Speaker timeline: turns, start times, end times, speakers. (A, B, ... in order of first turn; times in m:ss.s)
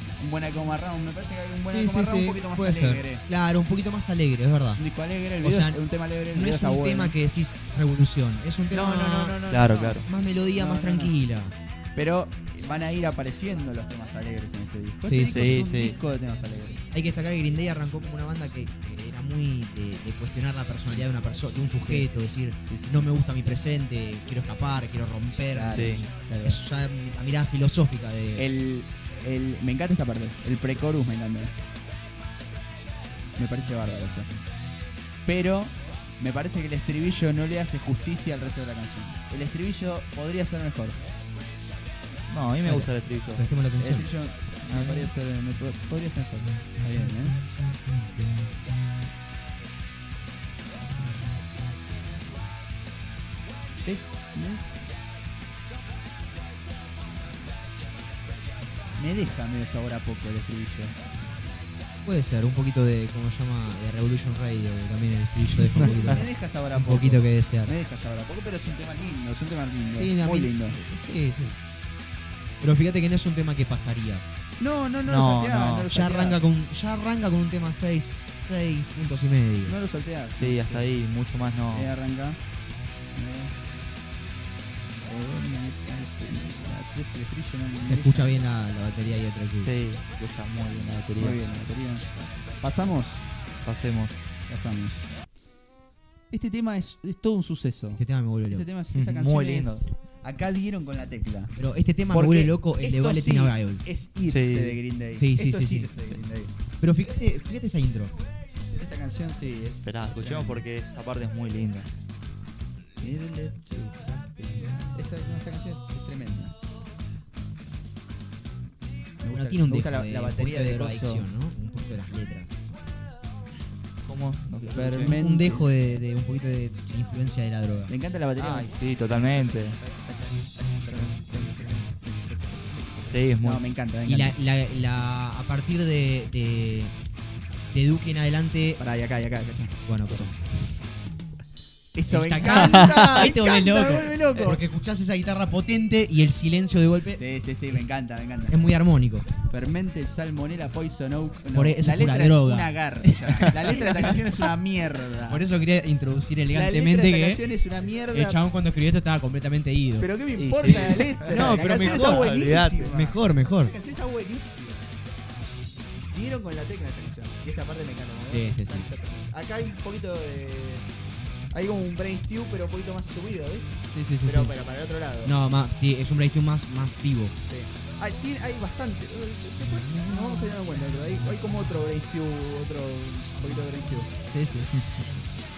0:00.2-0:03.2 A
0:01.7-0:04.8 B
0:04.7-0:07.1 A
0:05.4-0:05.8 B
0:06.3-0:09.4 B
0:08.7-0:11.1 A
0:09.5-0:10.0 C
0:10.0-0:11.5 B
0:12.0-0:16.8 A
0:15.0-0:15.6 B
0:15.3-0:16.0 C
0:16.9-0:28.5 B
0:21.8-0:22.1 A
0:22.6-0:23.1 A
0:25.5-0:26.6 A
0:25.7-0:26.0 C
0:28.4-0:31.5 A
0:33.4-0:34.3 A
0:35.2-0:41.0 A
0:42.3-0:43.4 C
0:42.6-0:44.1 B
0:43.8-0:47.3 A
0:44.7-0:45.1 C
0:46.8-0:49.0 B
0:51.1-0:51.5 B
0:53.8-0:54.7 A
0:59.0-1:01.0 A
1:02.0-1:07.7 B
1:05.6-1:06.2 C
1:05.8-1:10.8 A
1:10.0-1:11.6 B
1:12.6-1:14.4 B
1:14.6-1:16.4 A
1:15.0-1:15.9 C
1:15.9-1:19.7 B
1:19.6-1:20.8 A
1:20.4-1:21.9 C
1:21.7-1:22.4 A
1:23.1-1:23.5 A
1:25.0-1:28.4 A
1:27.8-1:29.7 B
1:29.6-1:31.4 C
1:31.2-1:33.3 A
1:33.6-1:34.2 C
1:34.5-1:35.1 A
1:36.3-1:41.5 A
1:37.9-1:38.7 B
1:38.9-1:39.8 C
1:41.6-1:43.8 B
1:42.1-1:46.5 A
1:44.2-1:44.8 C
1:45.2-1:45.9 B
1:46.8-1:48.1 B
1:48.7-1:50.6 A
1:49.8-1:51.9 C
1:53.0-1:56.5 A
1:59.2-2:01.2 A
1:59.3-2:02.6 B
2:04.0-2:05.2 C
2:04.6-2:05.6 A
2:05.0-2:07.9 B
2:07.9-2:14.3 A
2:08.4-2:09.8 C
2:13.0-2:13.6 C
2:14.1-2:16.9 B
2:17.7-2:18.8 B
2:18.8-2:20.3 A
2:19.8-2:20.4 B
2:21.9-2:24.6 A
2:22.1-2:27.9 B
2:22.5-2:23.2 C
2:27.2-2:28.6 A
2:28.5-2:29.3 B
2:29.4-2:35.4 A
2:31.5-2:34.4 B
2:35.3-2:37.4 B
2:36.5-2:38.4 A
2:38.1-2:40.1 B
2:40.0-2:44.8 A
2:40.4-2:42.9 C
2:41.3-2:43.7 B
2:46.1-2:50.8 A
2:48.3-2:48.9 B
2:51.5-2:55.3 A
2:53.9-2:54.5 B
2:55.2-2:57.3 B
2:57.5-3:04.1 A
2:59.7-3:00.5 B
3:04.3-3:04.7 B